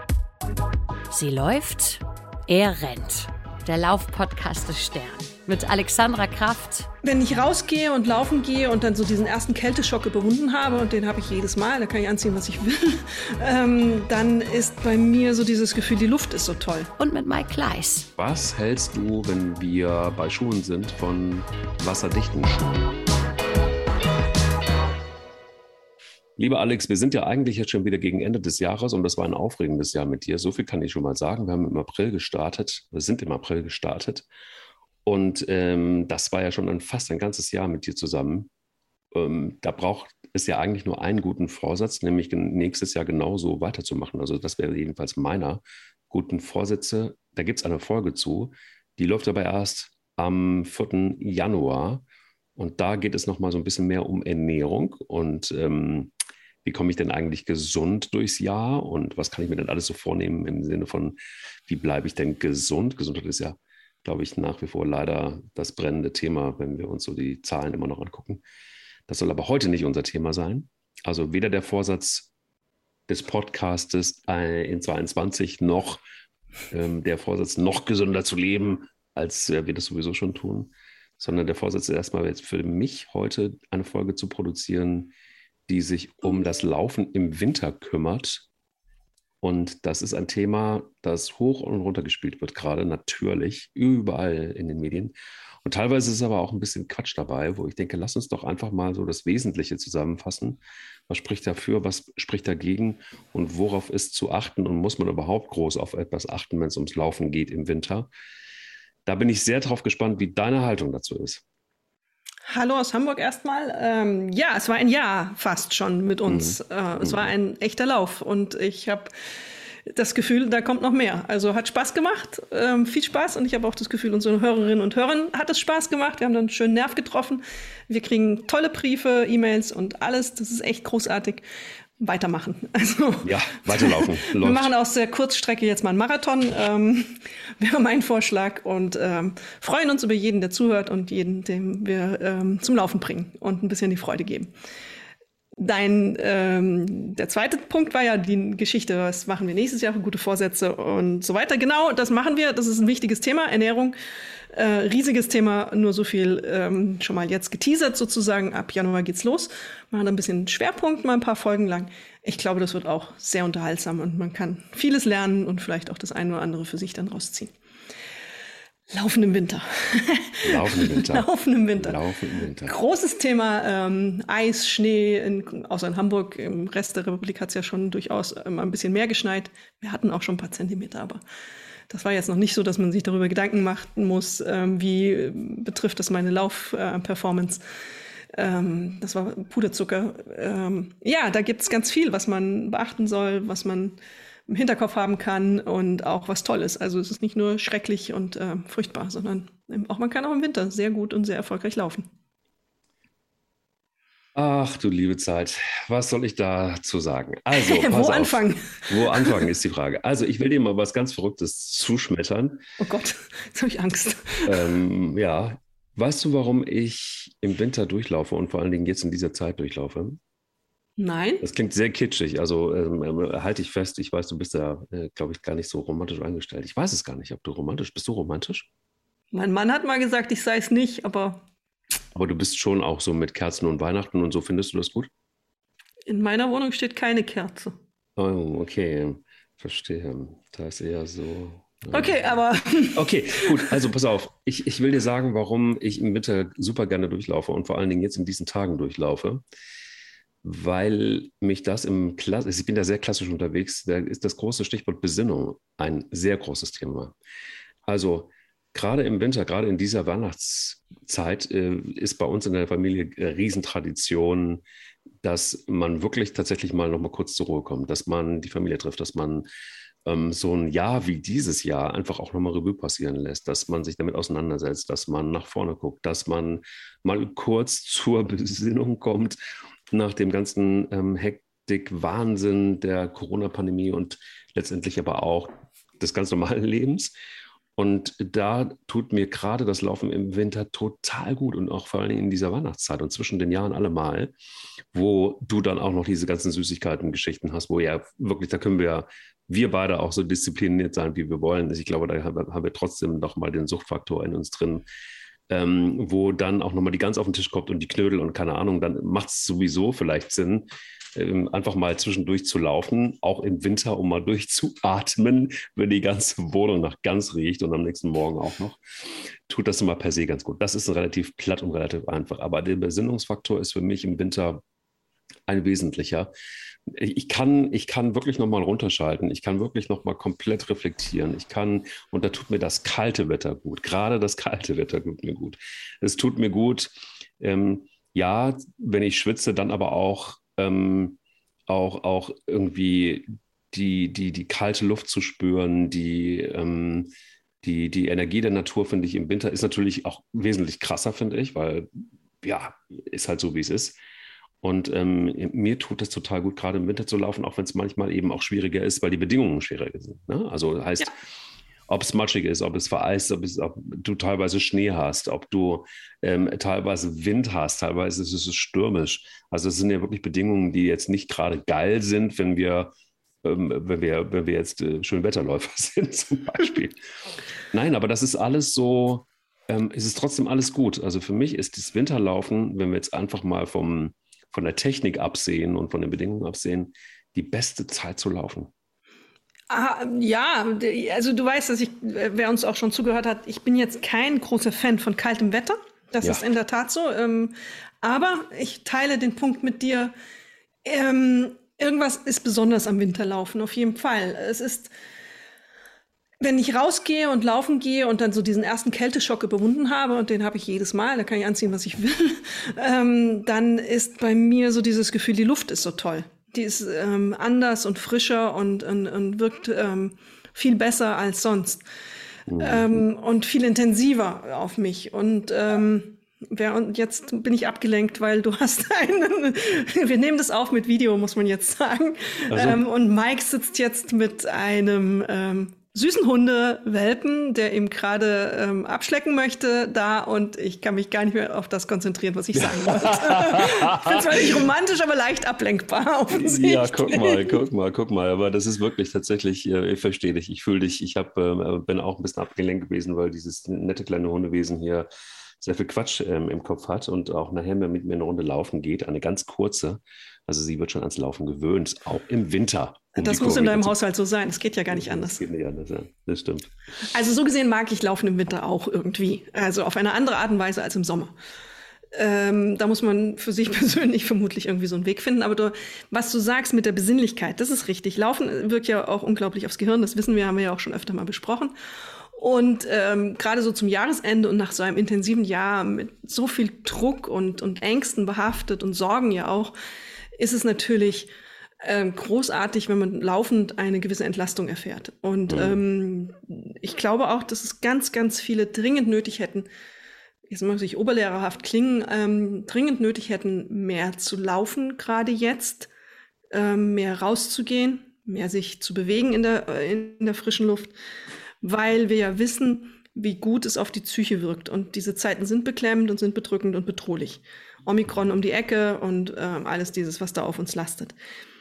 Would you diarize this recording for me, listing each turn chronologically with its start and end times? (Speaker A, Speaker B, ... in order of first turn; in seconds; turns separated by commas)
Speaker A: 1.1-6.9, Speaker B: 7.0-16.9, Speaker A: 17.0-18.1, Speaker C: 18.2-23.0, Speaker C: 26.4-34.3, Speaker C: 35.0-38.5, Speaker C: 39.1-52.0, Speaker C: 52.6-56.1, Speaker C: 56.6-68.4, Speaker C: 69.1-72.3, Speaker C: 73.1-76.0, Speaker C: 76.7-85.1, Speaker C: 85.7-88.5, Speaker C: 89.4-95.1, Speaker C: 95.7-108.1, Speaker C: 109.1-111.4, Speaker B: 112.5-119.1, Speaker C: 116.3-117.3, Speaker B: 119.9-131.4, Speaker B: 132.0-144.5, Speaker C: 133.2-134.7, Speaker B: 145.6-154.0, Speaker B: 154.5-167.5, Speaker B: 168.9-172.0, Speaker C: 170.4-172.7, Speaker B: 172.7-181.2, Speaker B: 181.9-187.6, Speaker B: 188.3-202.1, Speaker C: 204.3-212.6, Speaker B: 207.5-209.4, Speaker B: 212.8-214.7, Speaker C: 214.4-220.2, Speaker B: 221.0-221.4, Speaker C: 221.4-228.7, Speaker B: 229.3-231.4, Speaker C: 232.2-235.1, Speaker B: 236.1-237.8, Speaker C: 238.2-242.2, Speaker B: 241.9-243.8, Speaker C: 242.9-249.4, Speaker C: 250.4-257.1, Speaker C: 257.9-264.6, Speaker C: 265.2-269.5, Speaker C: 270.1-279.4, Speaker C: 279.9-287.1, Speaker C: 287.8-294.3, Speaker C: 294.9-304.9, Speaker C: 305.5-318.8, Speaker C: 319.5-324.6, Speaker C: 325.5-326.3, Speaker C: 326.9-347.1, Speaker C: 347.6-354.0, Speaker C: 354.6-361.1, Speaker C: 361.9-372.9, Speaker C: 373.4-377.0, Speaker C: 377.7-388.7, Speaker B: 389.7-400.1, Speaker B: 400.9-404.9, Speaker B: 406.4-421.8, Speaker C: 422.5-422.9, Speaker B: 422.6-447.6, Speaker C: 432.5-432.8, Speaker C: 442.6-444.6, Speaker C: 446.3-455.1, Speaker C: 455.6-464.0, Speaker B: 463.2-465.4, Speaker C: 464.9-466.7, Speaker B: 467.1-471.3, Speaker B: 472.1-481.7, Speaker B: 482.4-489.7, Speaker B: 490.4-491.3, Speaker B: 491.8-499.7, Speaker C: 495.5-495.8, Speaker B: 500.5-505.9, Speaker B: 506.5-510.9, Speaker B: 511.6-521.1